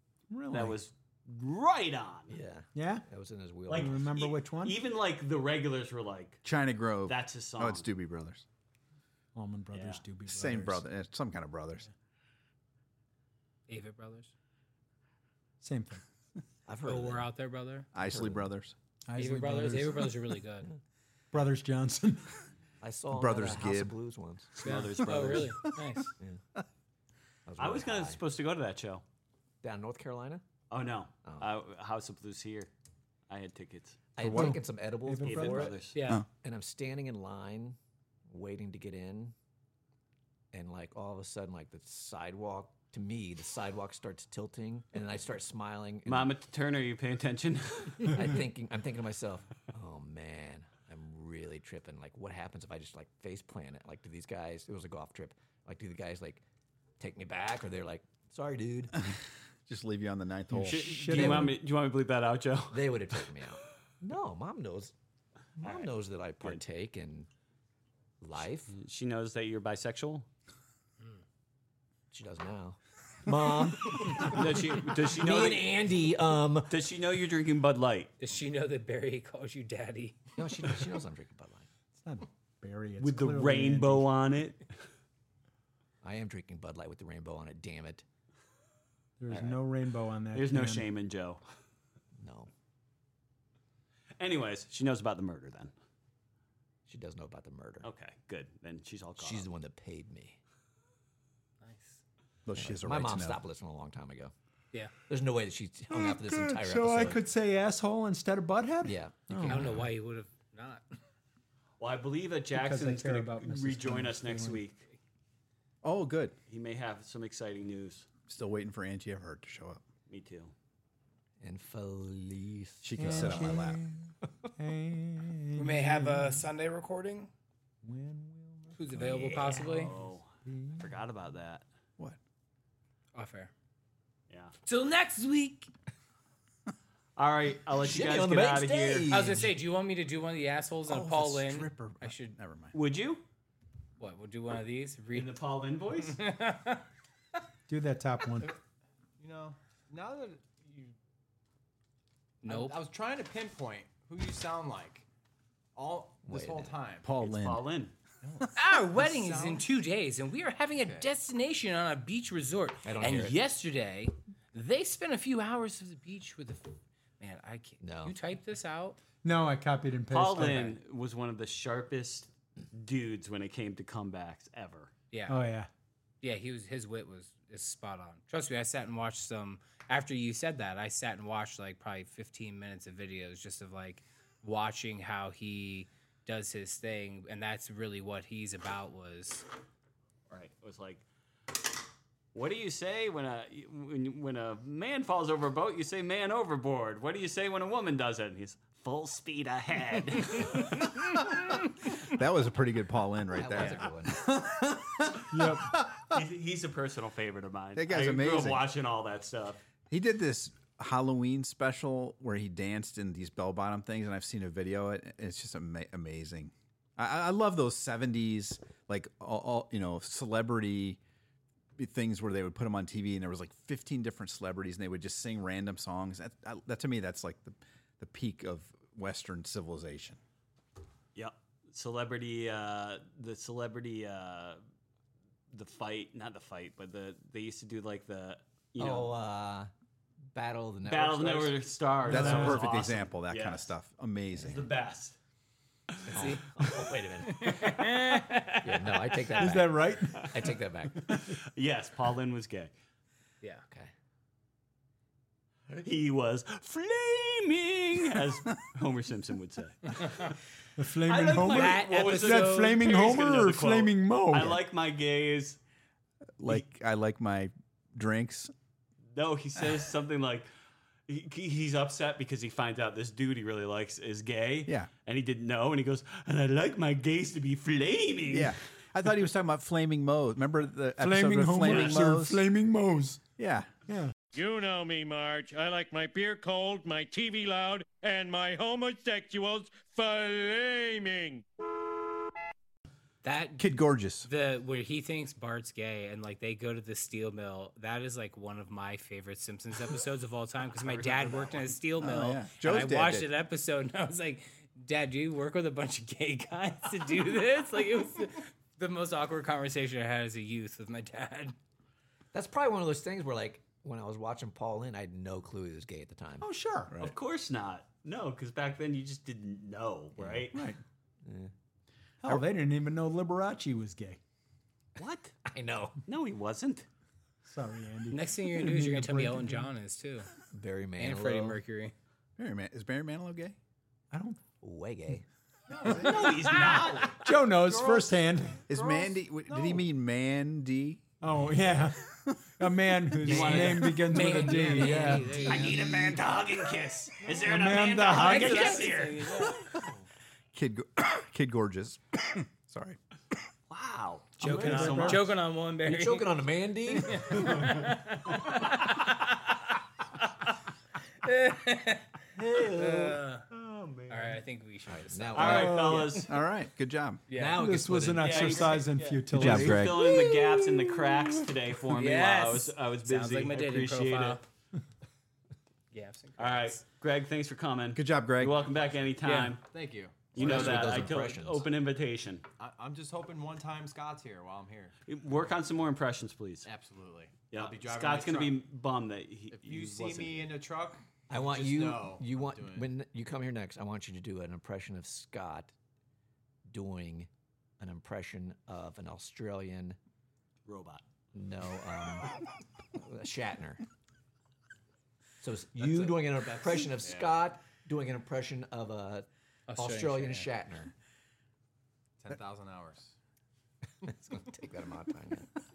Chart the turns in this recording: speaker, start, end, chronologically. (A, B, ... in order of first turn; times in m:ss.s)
0:00.3-0:00.8 A
0:00.5-0:02.4 B
0:02.3-0:04.0 C
0:02.8-0:03.0 A
0:03.7-0:06.4 B
0:03.7-0:04.8 A
0:06.4-0:08.4 D
0:07.1-0:07.9 B
0:09.4-0:10.9 A
0:09.8-0:10.0 B
0:10.3-0:11.9 D
0:13.7-0:14.3 E
0:15.6-0:16.0 A
0:16.7-0:17.3 C
0:16.9-0:17.9 E
0:17.9-0:18.8 D
0:18.0-0:18.5 C
0:19.1-0:20.1 A
0:19.2-0:20.7 E
0:21.3-0:22.3 A
0:22.8-0:25.4 C
0:23.1-0:24.0 D
0:24.6-0:25.6 B
0:24.6-0:26.1 E
0:27.5-0:28.2 C
0:27.6-0:29.0 B
0:29.6-0:30.4 C
0:30.7-0:32.7 B
0:31.2-0:31.5 C
0:33.3-0:34.5 B
0:34.2-0:39.4 C
0:34.2-0:34.5 D
0:34.3-0:35.8 A
0:35.2-0:36.1 B
0:36.0-0:36.2 E
0:40.5-0:46.3 C
0:46.1-0:48.2 B
0:48.0-0:56.4 C
0:57.0-0:58.9 C
0:59.7-1:00.9 D
1:00.5-1:01.6 A
1:00.6-1:03.2 B
1:01.1-1:01.6 C
1:02.7-1:04.9 C
1:05.6-1:07.3 C
1:05.6-1:06.6 B
1:08.2-1:08.7 C
1:08.7-1:10.3 B
1:12.1-1:16.8 C
1:14.2-1:15.8 B
1:16.7-1:18.1 B
1:18.2-1:20.4 E
1:20.4-1:21.7 C
1:22.0-1:24.1 A
1:23.0-1:24.7 B
1:26.0-1:28.0 C
1:29.2-1:30.9 A
1:29.3-1:29.6 B
1:30.3-1:31.4 B
1:32.2-1:32.5 C
1:34.2-1:35.7 B
1:36.9-1:37.9 C
1:37.8-1:39.5 B
1:39.2-1:40.4 C
1:41.6-1:42.0 E
1:42.5-1:43.4 D
1:42.6-1:44.3 C
1:45.1-1:47.2 C
1:45.9-1:49.8 A
1:48.8-1:49.9 C
1:49.5-1:50.8 E
1:51.8-1:54.8 B
1:52.5-1:54.6 A
1:55.8-1:56.4 D
1:56.5-1:58.1 B
1:58.3-1:59.8 D
2:00.1-2:00.5 B
2:01.4-2:03.6 C
2:02.8-2:03.8 D
2:03.0-2:06.5 A
2:05.6-2:07.3 E
2:07.8-2:10.9 A
2:08.8-2:10.0 E
2:09.0-2:09.7 C
2:09.8-2:11.7 B
2:13.1-2:13.5 E
2:14.6-2:15.7 E
2:17.2-2:19.1 B
2:17.7-2:19.5 C
2:19.1-2:22.4 E
2:20.9-2:22.8 D
2:22.7-2:23.2 B
2:24.0-2:25.4 E
2:25.1-2:26.2 B
2:26.0-2:26.8 E
2:27.7-2:28.5 A
2:29.2-2:30.9 F
2:32.4-2:32.8 E
2:32.4-2:35.1 F
2:35.8-2:37.1 F
2:36.2-2:36.8 C
2:37.0-2:37.6 D
2:37.2-2:38.0 B
2:38.2-2:39.7 F
2:38.6-2:49.0 E
2:40.8-2:41.1 F
2:42.8-2:43.4 C
2:47.8-2:48.2 C
2:49.2-2:50.7 A
2:50.1-2:54.9 B
2:50.4-2:50.8 E
2:55.1-2:55.4 E
2:55.3-2:55.7 A
2:56.2-3:09.5 E
3:10.3-3:11.0 B
3:12.3-3:20.9 B
3:22.0-3:26.2 D
3:23.3-3:24.4 C
3:25.3-3:25.8 A
3:26.0-3:29.6 B
3:27.8-3:28.7 D
3:29.9-3:41.0 D
3:41.8-3:50.2 D
3:51.2-3:54.6 B
3:55.5-3:59.1 B
3:58.8-3:59.7 C
4:00.3-4:01.6 C
4:00.8-4:03.7 B
4:02.0-4:04.7 D
4:02.1-4:02.6 A
4:04.4-4:05.2 B
4:06.1-4:08.0 C
4:06.1-4:06.6 E
4:07.3-4:09.6 E
4:08.6-4:11.2 C
4:09.4-4:10.3 A
4:10.2-4:10.4 B
4:11.0-4:12.7 B
4:15.7-4:20.4 B
4:20.8-4:24.6 A
4:21.0-4:25.6 B
4:21.3-4:22.9 E
4:26.4-4:28.5 D
4:29.1-4:30.5 B
4:31.1-4:38.6 B
4:38.3-4:42.4 D
4:41.0-4:43.2 A
4:43.4-4:43.7 D
4:43.9-4:44.1 A
4:44.3-4:51.4 G
4:53.2-5:11.6 E
4:53.6-4:54.3 D
5:02.0-5:03.3 D
5:12.3-5:16.4 C
5:16.4-5:16.9 A
5:16.9-5:17.2 D
5:17.0-5:20.6 B
5:20.2-5:20.5 C
5:20.5-5:20.8 A
5:21.2-5:21.5 C
5:22.2-5:24.2 A
5:25.0-5:25.3 B
5:25.5-5:26.0 C
5:26.1-5:26.9 B
5:27.4-5:29.7 A
5:28.1-5:30.3 E
5:30.5-5:31.6 C
5:31.0-5:31.9 E
5:32.4-5:33.6 D
5:34.1-5:34.4 A
5:34.6-5:35.2 C
5:35.8-5:39.9 F
5:35.8-5:37.2 B
5:37.1-5:38.6 A
5:38.7-5:41.0 D
5:41.2-5:42.0 A
5:42.6-5:45.4 A
5:43.2-5:44.2 B
5:43.3-5:43.6 C
5:43.4-5:46.1 E
5:44.1-5:46.8 C
5:45.4-5:49.5 B
5:47.4-5:48.9 A
5:48.1-5:49.7 E
5:50.5-5:53.0 D
5:53.7-5:55.4 B
5:54.4-5:55.3 A
5:54.4-5:59.6 E
5:55.8-5:57.7 C
6:01.2-6:03.5 E
6:02.4-6:03.2 C
6:03.5-6:04.4 B
6:04.1-6:06.3 E
6:04.9-6:06.1 C
6:05.4-6:06.4 B
6:05.4-6:06.1 A
6:06.3-6:07.2 D
6:07.3-6:07.6 E
6:07.3-6:08.9 C
6:07.6-6:09.9 A
6:08.2-6:14.4 B
6:09.3-6:10.2 D
6:10.1-6:10.6 E
6:11.9-6:14.4 E
6:15.9-6:16.8 E
6:16.4-6:19.6 B
6:18.0-6:18.6 D
6:19.2-6:19.6 E
6:19.6-6:21.1 F
6:20.3-6:22.4 B
6:20.4-6:21.7 C
6:22.6-6:25.0 F
6:25.1-6:26.7 B
6:26.6-6:28.6 F
6:27.5-6:30.5 B
6:29.5-6:32.9 F
6:31.3-6:35.7 C
6:36.7-6:37.3 C
6:37.8-6:40.0 C
6:40.7-6:41.0 B
6:41.3-6:42.3 C
6:42.9-6:43.8 C
6:45.4-6:50.9 C
6:45.8-6:47.4 F
6:49.7-6:50.5 E
6:52.2-6:53.2 F
6:54.0-6:55.5 C